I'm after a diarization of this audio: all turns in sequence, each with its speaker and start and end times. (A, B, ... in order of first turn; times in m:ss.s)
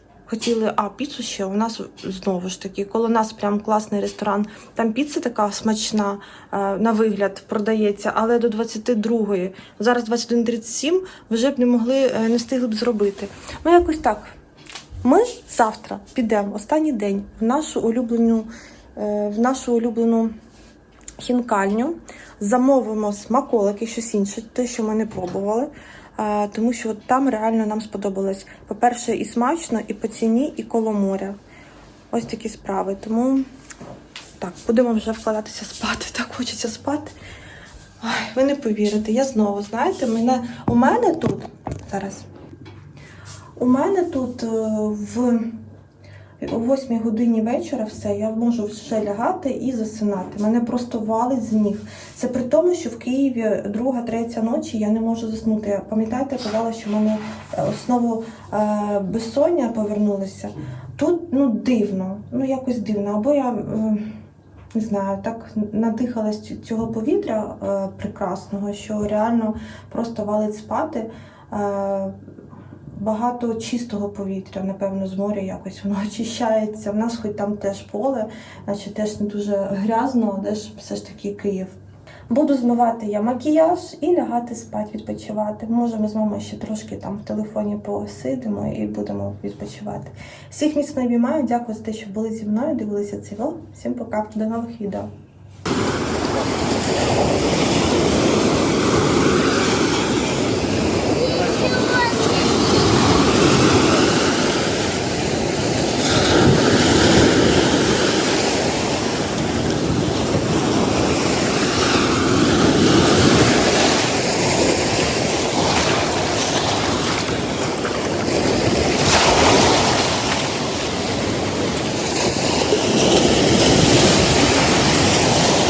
0:00.3-0:14.3 A
0:15.0-0:20.3 A
0:21.2-0:31.4 A
0:32.1-0:33.4 A
0:34.4-0:37.1 A
0:38.0-0:42.2 A
0:43.6-0:45.6 A
0:46.4-1:04.2 A
1:04.7-1:12.2 A
1:12.9-1:21.7 A
1:22.3-1:35.1 A